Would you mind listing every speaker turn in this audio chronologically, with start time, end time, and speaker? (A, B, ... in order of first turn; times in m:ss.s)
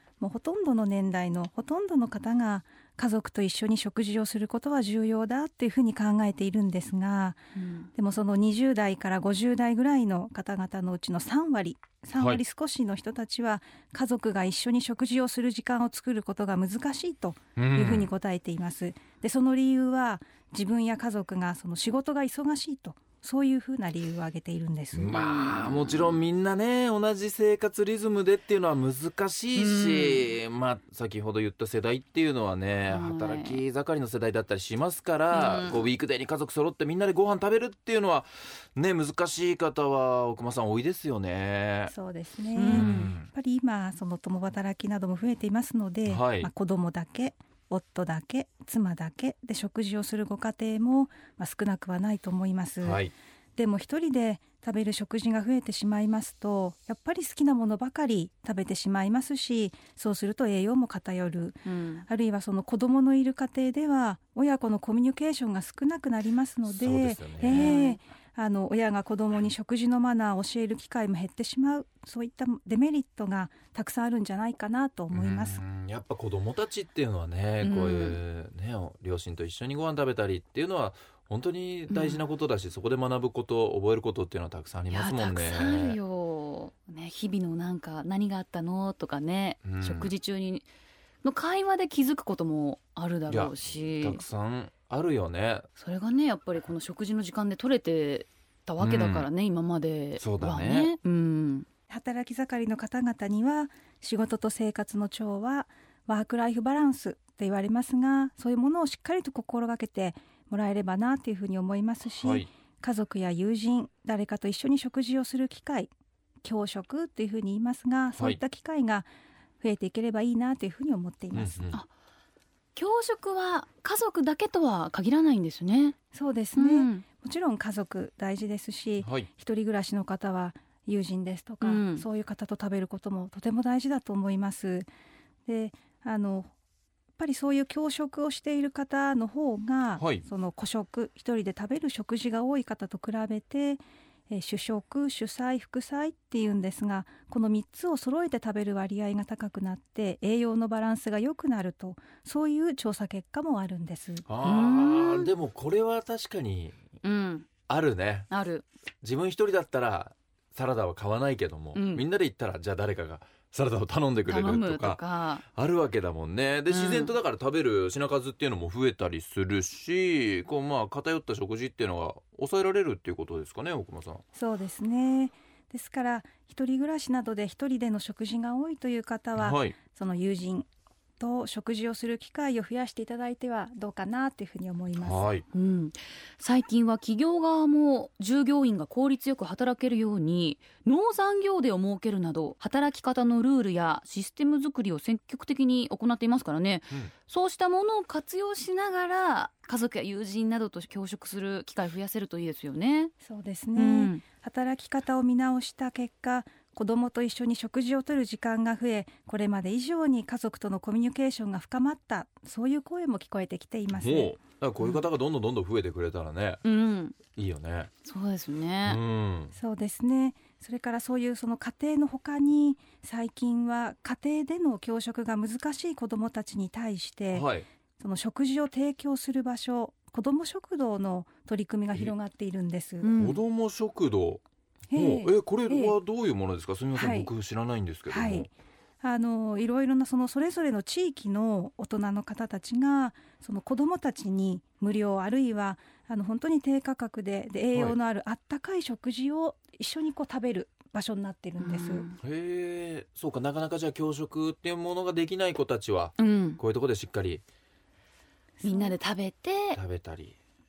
0:00.2-0:07.4 A
0:07.6-0:07.9 B
0:07.9-0:25.2 A
0:17.6-0:18.1 C
0:24.9-0:41.9 C
0:25.1-0:26.2 B
0:29.6-0:30.3 B
0:32.9-0:33.6 B
0:35.3-0:35.9 B
0:41.9-0:53.0 A
0:42.6-0:43.1 B
0:42.7-0:43.3 C
0:46.1-0:46.5 C
0:52.8-0:53.1 C
0:53.6-1:15.6 A
1:01.6-1:02.0 B
1:06.7-1:07.8 C
1:07.4-1:08.0 B
1:15.1-1:26.0 C
1:17.6-1:18.2 B
1:21.9-1:22.2 B
1:24.9-1:30.7 B
1:29.6-1:30.1 C
1:31.2-1:34.2 B
1:33.3-1:35.7 C
1:35.8-1:41.7 B
1:38.8-1:39.3 C
1:40.2-1:41.0 C
1:41.9-1:55.9 A
1:52.2-1:52.5 C
1:56.4-1:59.1 A
1:59.6-2:01.7 A
2:01.3-2:01.8 C
2:02.8-2:06.0 B
2:06.1-2:14.9 A
2:06.6-2:07.0 B
2:09.0-2:09.3 C
2:11.6-2:12.0 B
2:15.5-2:16.5 A
2:17.2-2:34.3 A
2:20.0-2:20.2 C
2:34.3-2:36.8 C
2:34.4-2:35.3 B
2:37.0-2:37.5 B
2:37.7-2:38.3 C
2:38.3-2:38.6 B
2:39.0-2:54.2 C
2:41.7-2:42.0 B
2:44.3-2:45.4 B
2:46.7-2:47.2 B
2:54.4-3:00.7 A
2:59.4-2:59.8 C
3:01.2-3:05.3 A
3:05.0-3:05.4 C
3:05.5-3:23.1 B
3:23.2-3:34.4 A
3:23.8-3:24.2 B
3:34.0-3:36.6 C
3:36.6-3:37.2 B
3:37.4-3:37.9 C
3:38.0-3:39.0 B
3:38.8-3:39.5 C
3:39.5-3:53.1 A
3:47.3-3:47.7 C
3:53.0-3:53.4 B
3:53.2-3:54.4 C
3:54.9-3:56.0 A
3:54.9-3:58.5 C
3:57.0-3:57.3 A
3:58.1-4:12.1 A
4:11.6-4:12.2 B
4:12.2-4:17.4 C
4:16.2-4:16.6 B
4:18.6-4:19.0 A
4:18.6-4:19.8 B
4:19.8-4:20.4 C